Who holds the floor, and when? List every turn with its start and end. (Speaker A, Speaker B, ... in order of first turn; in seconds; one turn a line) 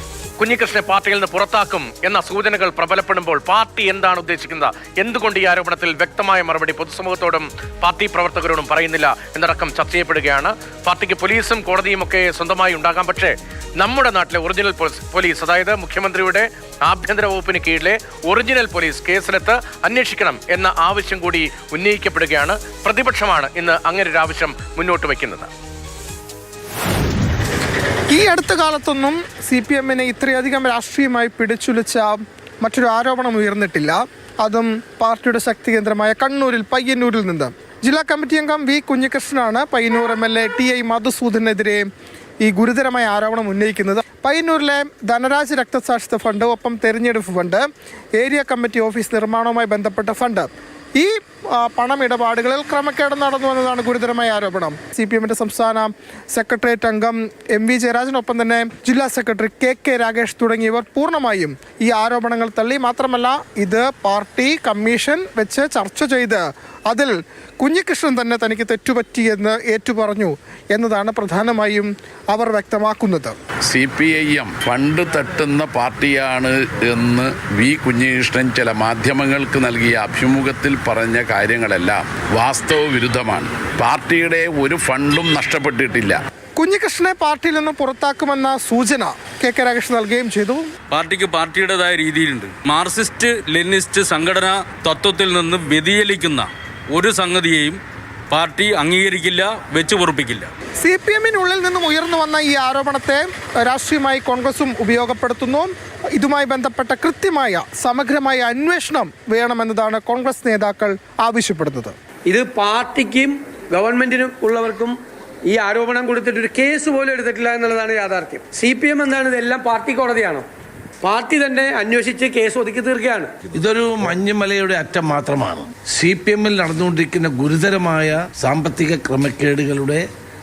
Speaker A: 0.4-25.5
Speaker B: 28.1-41.9
Speaker B: 42.4-73.3
Speaker C: 73.7-86.2
Speaker B: 86.6-90.7
Speaker D: 90.9-97.8
Speaker D: 98.3-100.5
Speaker B: 100.8-111.9
Speaker E: 112.3-114.9
Speaker E: 115.5-120.4
Speaker E: 121.0-123.3
Speaker F: 123.5-130.1